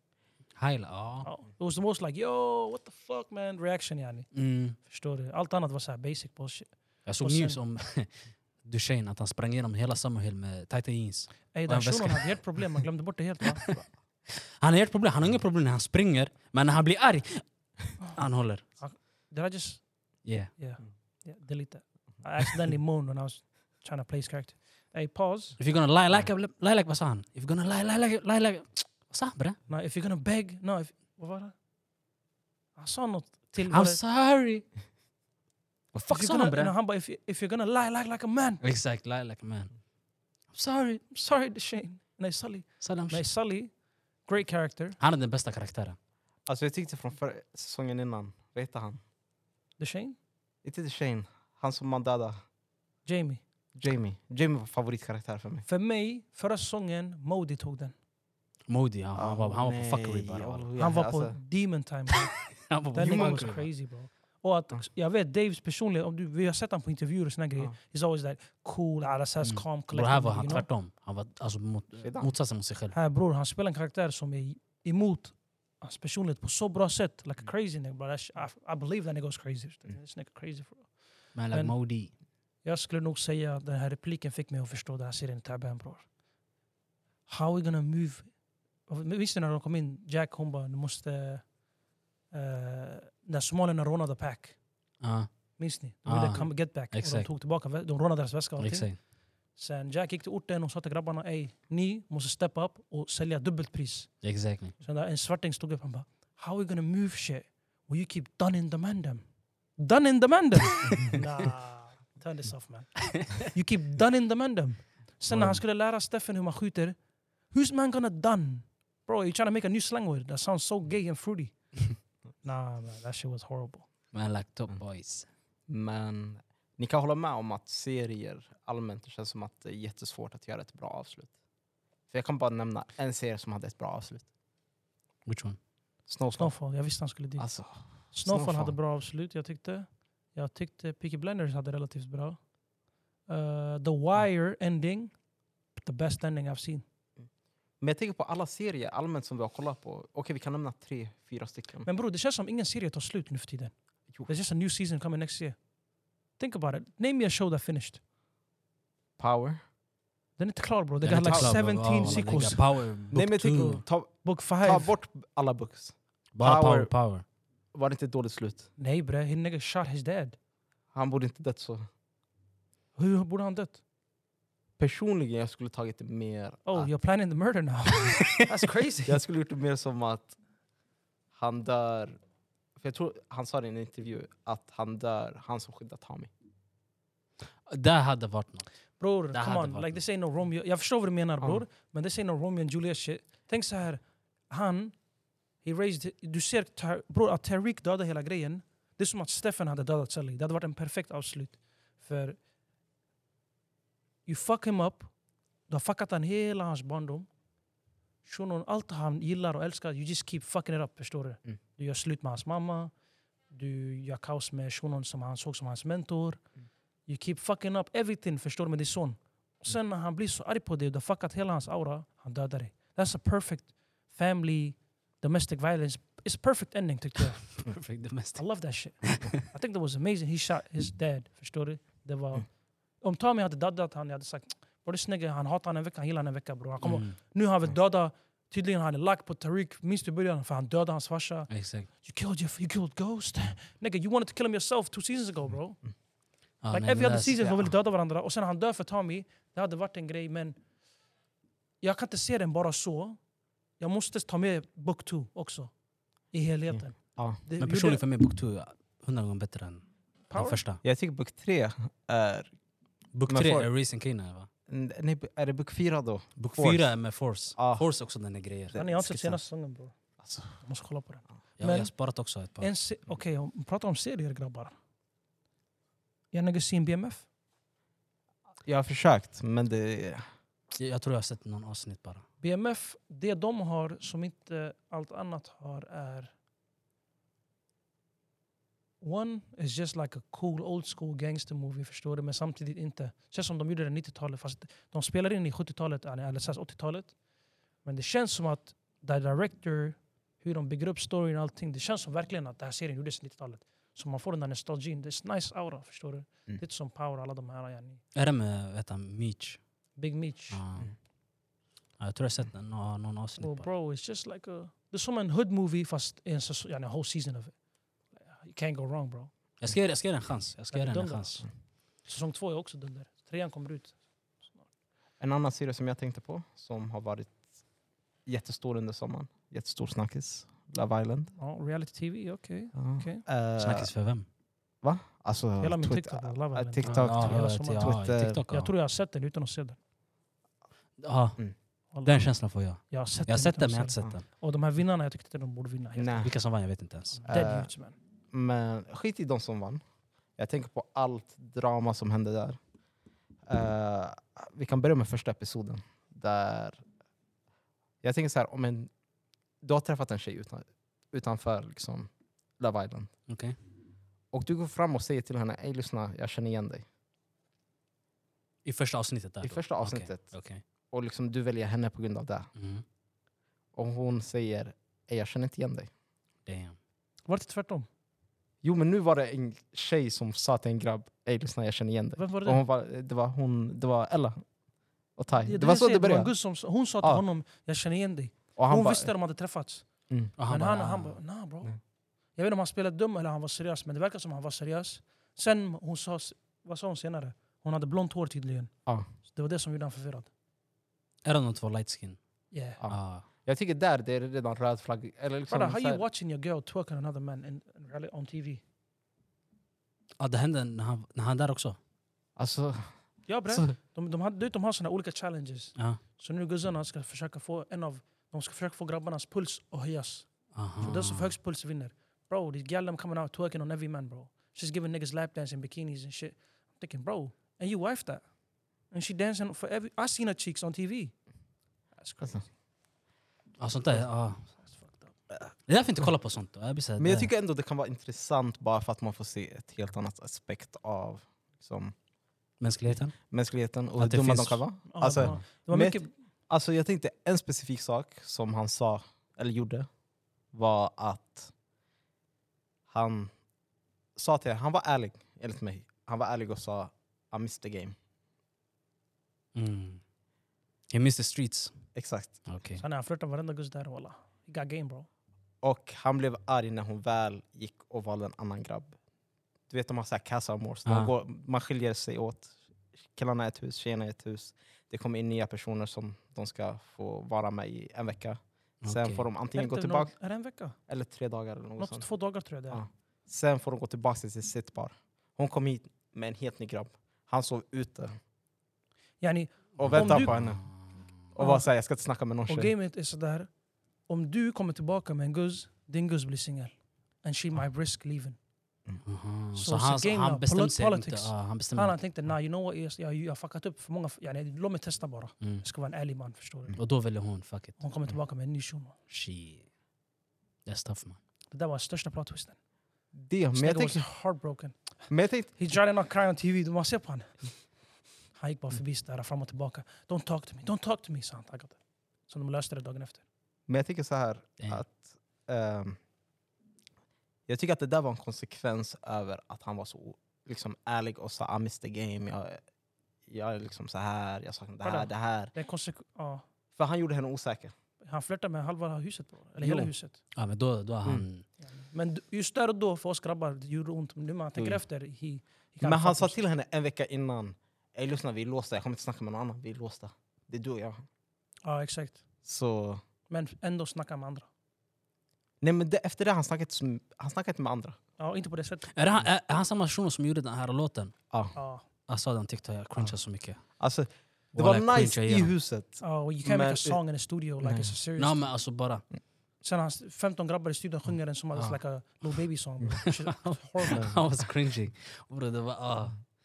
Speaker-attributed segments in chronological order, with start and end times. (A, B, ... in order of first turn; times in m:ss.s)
0:00.6-0:01.3 A
0:01.2-0:07.6 B
0:04.3-0:04.8 A
0:07.1-0:12.4 A
0:11.5-0:13.9 B
0:14.5-0:18.6 A
0:18.8-0:19.9 B
0:20.2-0:20.5 A
0:20.6-0:25.6 B
0:25.6-0:29.6 A
0:29.7-0:31.5 B
0:32.8-0:34.0 B
0:33.6-0:34.7 A
0:35.9-0:36.7 A
0:36.1-0:38.7 B
0:38.6-0:39.7 A
0:40.5-0:43.7 B
0:42.8-0:43.3 A
0:44.2-0:45.0 B
0:45.0-0:46.0 A
0:46.4-0:49.0 C
0:49.8-0:50.2 B
0:50.6-0:52.4 C
0:53.1-0:53.4 B
0:53.8-0:55.6 C
0:55.6-0:57.9 B
0:58.7-1:00.7 A
0:59.1-1:01.4 C
1:00.8-1:10.7 B
1:02.5-1:03.6 A
1:03.0-1:03.6 C
1:09.4-1:12.9 A
1:12.0-1:12.4 C
1:12.9-1:21.8 B
1:21.4-1:22.1 A
1:22.6-1:26.1 B
1:27.3-1:28.3 B
1:28.9-1:31.5 B
1:32.3-1:34.6 B
1:35.0-1:37.3 A
1:35.6-1:39.0 B
1:38.6-1:39.0 A
1:39.5-1:49.2 B
1:44.2-1:44.8 A
1:49.8-1:57.0 B
1:57.5-2:03.9 B
2:04.1-2:05.3 A
2:05.7-2:11.3 C
2:12.1-2:14.3 C
2:15.2-2:15.6 A
2:16.1-2:16.6 C
2:16.4-2:22.4 B
2:17.4-2:18.8 C
2:23.3-2:25.2 B
2:25.8-2:26.8 B
2:27.8-2:31.9 C
2:31.9-2:33.7 B
2:34.2-2:35.6 B
2:36.4-2:38.0 B
2:39.2-2:39.6 C
2:40.4-2:42.7 B
2:41.0-2:43.8 A
2:41.3-2:41.5 C
2:42.0-2:42.4 C
2:43.1-2:46.9 C
2:44.2-2:44.9 B
2:46.4-2:47.2 A
2:47.7-2:48.7 C
2:48.8-2:50.4 B
2:50.9-2:51.8 C
2:53.0-2:53.8 B
2:54.8-2:56.9 C
2:56.6-2:59.2 B
2:59.0-3:00.4 C
3:01.3-3:02.2 C
3:02.8-3:06.3 C
3:07.7-3:08.7 A
3:09.0-3:15.0 B
3:09.3-3:10.0 A
3:15.6-3:22.4 B
3:24.2-3:25.1 B
3:25.7-3:27.3 B
3:28.2-3:32.9 B
3:33.5-3:36.4 B
3:37.1-3:47.7 B
3:47.6-3:48.4 A
3:48.4-4:05.8 B
3:49.0-3:49.4 A
3:56.8-3:57.2 A
4:01.5-4:01.9 A
4:06.6-4:07.5 A
4:06.7-4:10.6 B
4:11.8-4:13.2 B
4:13.8-4:15.7 B
4:16.3-4:18.0 B
4:16.7-4:17.4 C
4:17.6-4:20.8 A
4:20.3-4:20.6 B
4:20.8-4:22.5 C
4:23.1-4:24.5 A
4:23.3-4:23.7 C
4:24.7-4:26.9 C
4:26.4-4:28.8 A
4:27.5-4:27.9 C
4:28.7-4:29.4 C
4:28.7-4:30.0 B
4:30.2-4:30.5 C
4:30.5-4:31.9 B
4:31.6-4:32.7 A
4:32.6-4:34.7 B
4:36.3-4:37.2 B
4:38.6-4:40.2 C
4:40.8-4:42.2 A
4:42.4-4:46.3 B
4:49.0-4:57.2 B
4:57.8-5:08.0 B
5:08.1-5:09.6 A
5:10.0-5:10.6 B
5:10.5-5:10.9 A
5:12.0-5:13.7 A
5:13.4-5:17.6 B
5:18.1-5:19.3 B
5:19.6-5:21.4 A
5:20.7-5:21.5 B
5:22.0-5:24.6 B
5:25.2-5:27.4 C
5:28.2-5:31.3 C
5:31.4-5:33.2 B
5:32.8-5:33.9 C
5:33.6-5:34.2 A
5:34.8-5:38.4 C
5:35.6-5:39.8 B
5:36.8-5:38.7 A
5:41.0-5:44.2 A
5:41.9-5:46.3 B
5:46.0-5:46.3 C
5:46.2-5:47.2 A
5:47.1-5:48.0 B
5:47.2-5:47.7 C
5:48.3-5:49.8 C
5:50.4-5:52.6 C
5:53.5-5:56.8 C
5:58.0-5:58.9 C
5:59.6-6:03.1 C
6:03.3-6:03.6 A
6:04.3-6:06.8 C
6:08.6-6:10.6 A
6:09.4-6:10.4 C
6:10.9-6:12.5 C
6:12.6-6:12.8 A
6:13.7-6:15.9 C
6:16.5-6:16.8 A
6:17.2-6:17.9 B
6:18.6-6:24.4 C
6:22.2-6:22.6 B
6:25.2-6:26.3 C
6:25.4-6:29.9 B
6:28.6-6:29.1 C
6:30.4-6:31.2 A
6:30.5-6:31.7 B
6:32.4-6:38.7 B
6:39.3-6:40.3 B
6:41.2-6:42.2 A
6:42.5-6:42.8 B
6:42.8-6:46.0 C
6:42.9-6:43.2 A
6:45.5-6:48.6 B
6:50.2-6:51.8 A
6:52.4-6:52.9 C
6:53.3-7:08.2 B
7:00.5-7:01.3 A
7:08.9-7:11.1 B
7:12.0-7:12.4 B
7:13.6-7:14.5 A
7:14.6-7:15.1 B
7:15.6-7:17.3 A
7:17.0-7:21.9 C
7:22.6-7:23.2 A
7:23.2-7:29.9 C
7:24.0-7:25.4 A
7:24.9-7:26.1 B
7:30.5-7:31.5 C
7:32.9-7:33.3 C
7:34.2-7:38.0 C
7:39.5-7:40.0 A
7:40.9-7:41.8 A
7:42.0-7:42.4 C
7:42.5-7:42.8 A
7:42.8-7:45.1 B
7:45.6-7:49.0 C
7:49.7-8:00.1 C
7:50.9-7:51.1 A
7:58.8-7:59.2 A
7:59.5-8:00.8 B
8:00.9-8:02.1 C
8:01.8-8:02.8 B
8:02.7-8:08.2 C
8:09.2-8:10.4 B
8:09.8-8:10.7 C
8:09.8-8:11.1 A
8:11.3-8:12.7 C
8:11.4-8:11.7 B
8:12.5-8:13.5 B
8:14.1-8:18.4 B
8:19.0-8:22.0 A
8:19.6-8:26.8 B
8:26.8-8:27.8 A
8:27.8-8:29.0 B
8:29.1-8:29.7 A
8:30.6-8:31.2 A
8:31.5-8:32.6 B
8:33.1-8:34.0 C
8:33.5-8:37.6 B
8:35.1-8:35.6 C
8:38.4-8:43.2 B
8:43.7-8:46.0 C
8:47.5-8:52.6 C
8:53.2-8:55.5 C
8:54.8-8:56.4 B
8:56.8-8:57.7 C
8:58.0-9:00.2 B
8:59.6-8:59.9 C
9:00.4-9:01.4 A
9:01.6-9:06.4 B
9:04.6-9:04.8 C
9:05.8-9:11.0 C
9:11.6-9:12.2 B
9:12.4-9:13.0 C
9:13.3-9:14.5 B
9:15.6-9:18.0 C
9:18.2-9:18.9 B
9:18.9-9:21.2 A
9:21.5-9:21.8 B
9:22.1-9:23.6 A
9:23.8-9:27.0 C
9:24.5-9:25.5 A
9:26.0-9:28.4 B
9:27.6-9:27.9 C
9:28.2-9:29.0 A
9:29.6-9:34.1 B
9:33.0-9:36.2 A